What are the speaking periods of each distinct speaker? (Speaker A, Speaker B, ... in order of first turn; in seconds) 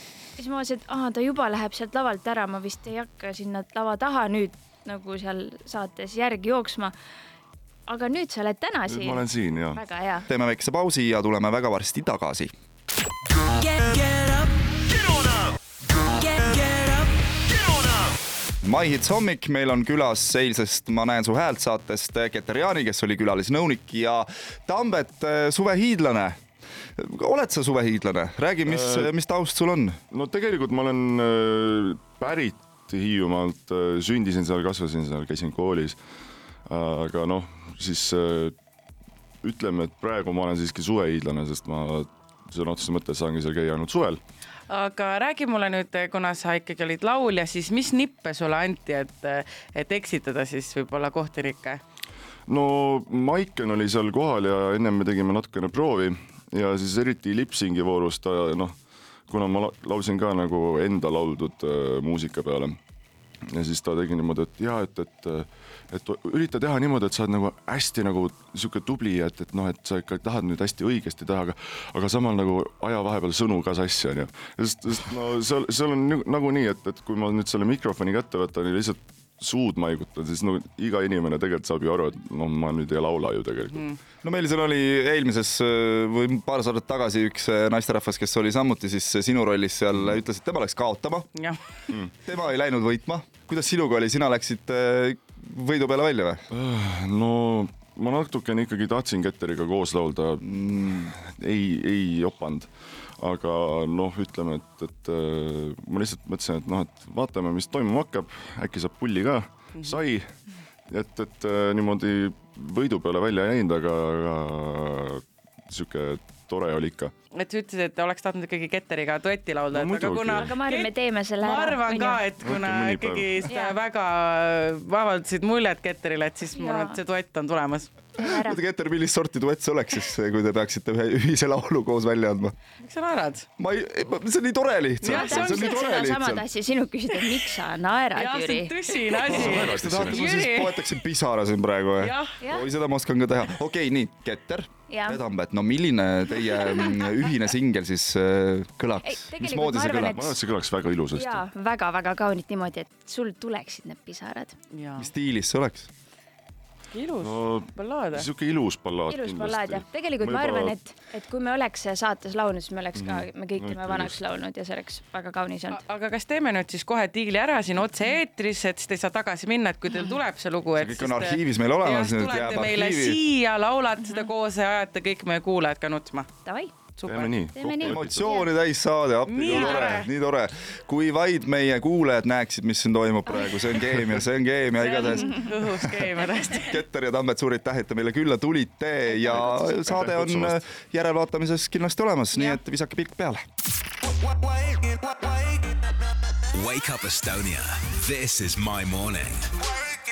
Speaker A: 0.4-6.9, 7.9-10.3, 13.6-14.4, 15.9-17.1, 120.4-122.2, 123.4-123.8, 126.6-127.0, 128.2-128.6, 135.1-138.7, 144.9-145.2, 149.0-150.4, 151.1-154.6, 159.1-165.8, 169.9-170.2, 176.4-176.7, 177.6-178.5, 189.2-189.8
Speaker B: 8.9-9.8, 28.7-29.1, 30.1-36.0, 36.7-38.5, 39.4-44.2, 52.5-58.8, 59.3-62.8, 63.5-83.9, 96.5-110.3, 110.9-117.1, 119.7-120.6, 122.4-123.4, 139.4-140.3, 149.8-151.4, 157.2-160.8, 163.0-164.2, 177.1-178.3, 189.3-190.6
Speaker C: 10.3-12.5, 18.6-26.4, 27.0-30.0, 84.2-91.3, 92.2-96.5, 100.4-101.1, 128.2-132.6, 133.6-136.4, 139.3-150.1, 155.0-155.9, 170.8-173.2, 177.8-185.8, 186.5-193.4, 194.7-195.2
Speaker D: 44.7-51.8, 91.3-91.6, 117.3-127.9, 132.8-133.5, 135.0-135.8, 138.2-140.9, 142.0-142.3, 154.7-155.1, 156.9-158.3, 165.7-176.3, 177.0-177.4, 179.3-180.1, 184.8-186.8, 192.3-192.6
Speaker E: 196.5-199.6